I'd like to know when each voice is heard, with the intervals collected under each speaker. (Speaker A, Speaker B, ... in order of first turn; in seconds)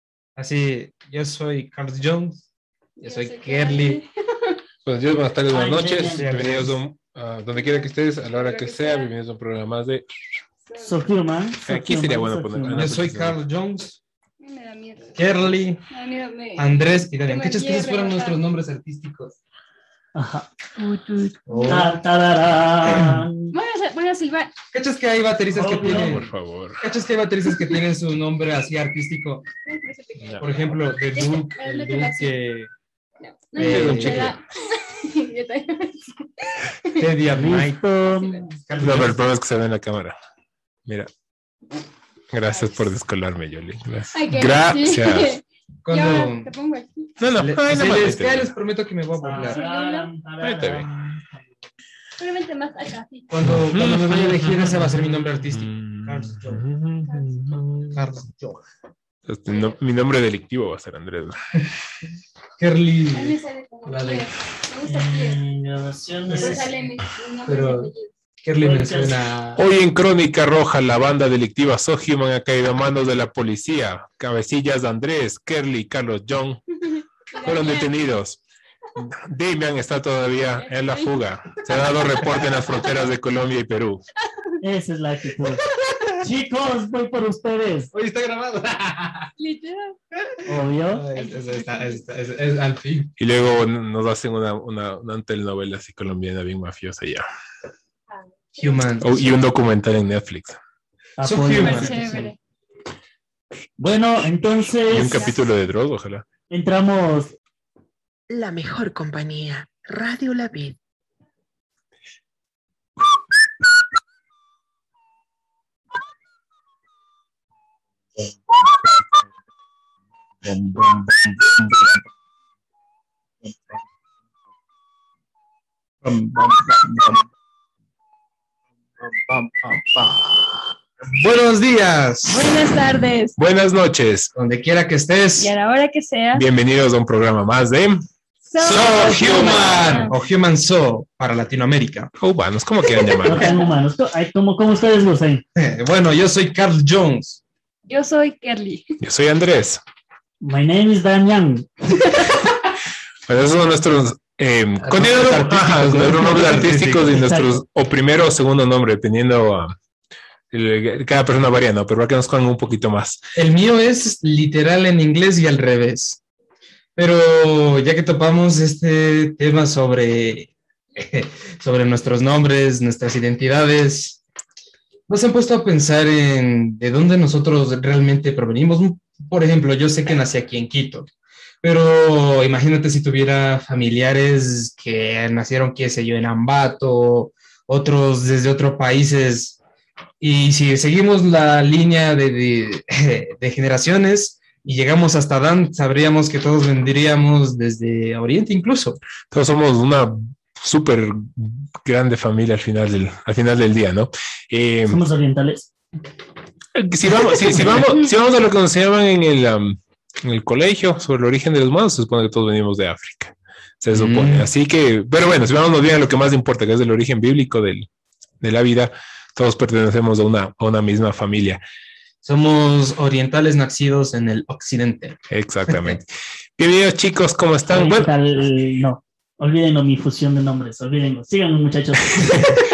Speaker A: 0.4-2.5, 3.0-4.0, 6.2-6.8, 12.7-14.0, 15.2-15.8, 16.6-19.4, 21.5-21.9, 22.9-23.2, 24.7-26.3, 26.8-29.5, 30.4-32.7, 33.6-34.3, 37.0-37.8, 38.7-39.2, 45.8-46.5, 47.4-49.6, 53.3-56.6, 57.9-58.6, 62.6-64.3, 66.3-66.7, 67.5-67.9, 68.4-69.6, 87.9-89.3, 90.9-93.1, 98.6-99.4, 101.2-102.3, 120.5-121.9, 126.0-127.2, 129.0-132.5, 134.3-135.5, 138.6-142.1, 145.6-147.4, 154.8-157.2, 163.4-166.2, 167.0-174.2, 175.1-181.1, 181.6-189.6, 190.2-199.0, 213.9-214.5, 222.2-226.0
Speaker B: 3.0-4.6, 7.6-9.1, 10.7-11.1, 14.4-15.3, 15.9-16.7, 17.3-18.4, 20.8-21.7, 23.5-24.5, 29.6-32.4, 33.2-37.0, 38.1-38.5, 42.5-42.8, 44.1-47.1, 49.5-50.1, 52.2-53.3, 57.1-57.4, 59.5-59.8, 63.1-65.4, 66.4-68.1, 76.9-77.9, 80.6-81.2, 89.4-90.0, 91.2-92.0, 98.1-98.8, 101.6-102.4, 105.0-105.3, 132.3-133.3, 135.4-136.4, 138.5-140.1, 147.9-148.9
Speaker C: 4.8-10.1, 11.7-13.4, 25.8-26.8, 33.6-34.3, 38.8-40.2, 42.3-45.3, 47.2-48.5, 50.4-51.2, 53.4-58.0, 59.3-61.4, 69.6-76.6, 77.4-78.4, 79.0-84.0, 93.2-97.2, 99.0-100.6, 104.9-106.3, 133.4-134.3, 136.3-138.0, 138.6-140.1, 142.2-143.5, 149.0-149.8, 153.3-159.8, 160.5-163.2, 199.3-205.0, 206.8-217.9, 218.4-221.6, 225.3-228.1, 232.1-232.6
Speaker D: 5.5-6.2, 10.8-12.8, 20.1-20.5, 21.7-23.5, 25.5-26.2, 37.3-39.2, 49.2-50.9, 64.8-66.7, 68.6-69.2, 84.6-85.6, 86.2-87.9, 90.5-91.0, 101.2-102.2, 103.8-105.4, 106.5-107.3, 143.2-145.4, 150.4-152.3, 156.0-157.6, 204.9-205.7, 227.7-232.3
Speaker E: 108.3-110.8